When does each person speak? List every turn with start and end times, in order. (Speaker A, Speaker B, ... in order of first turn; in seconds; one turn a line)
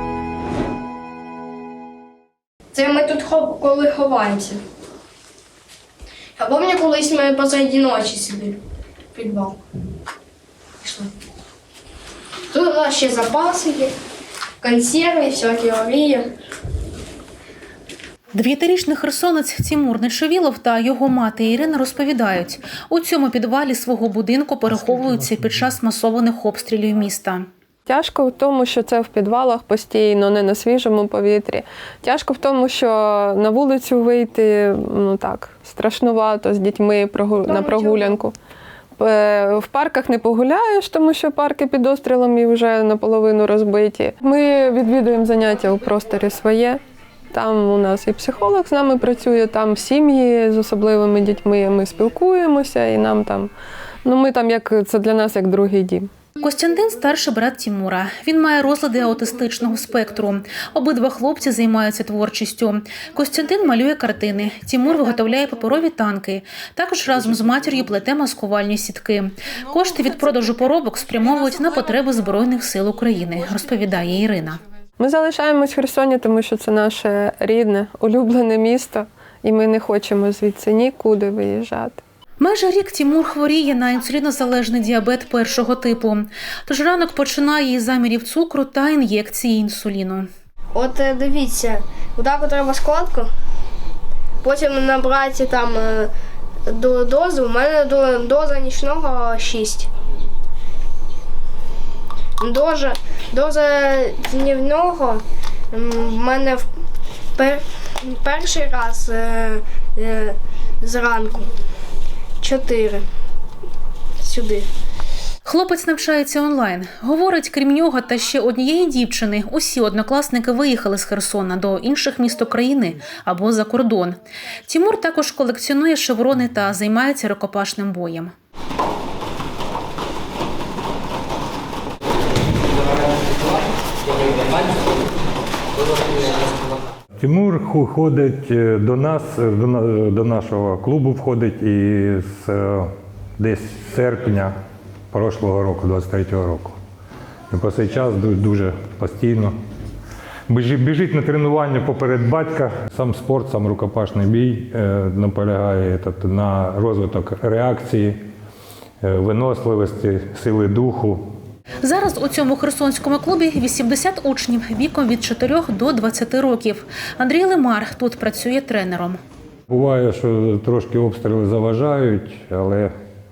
Speaker A: 2.7-4.5
Speaker A: 6.4-8.6
Speaker A: 9.1-9.5
Speaker A: 12.5-13.9
Speaker A: 14.6-16.2
Speaker B: 18.3-27.4
Speaker C: 27.9-38.3
Speaker C: 39.0-46.8
Speaker C: 47.3-53.5
Speaker C: 54.0-56.1
Speaker B: 56.4-74.6
Speaker C: 75.0-82.0
Speaker B: 82.4-90.3
Speaker A: 90.7-93.3
Speaker A: 94.4-96.1
Speaker A: 96.7-99.9
Speaker A: 102.4-105.2
Speaker A: 105.7-106.6
Speaker A: 108.2-111.5
Speaker A: 112.4-113.0
Speaker A: 114.2-114.6
Speaker B: 115.4-128.3
Speaker D: 137.2-144.5
Speaker D: 145.1-146.7
Speaker D: 147.5-149.5
Speaker D: 150.5-158.2
Speaker D: 159.0-161.2
Speaker B: 161.8-169.2
Speaker D: 169.7-172.9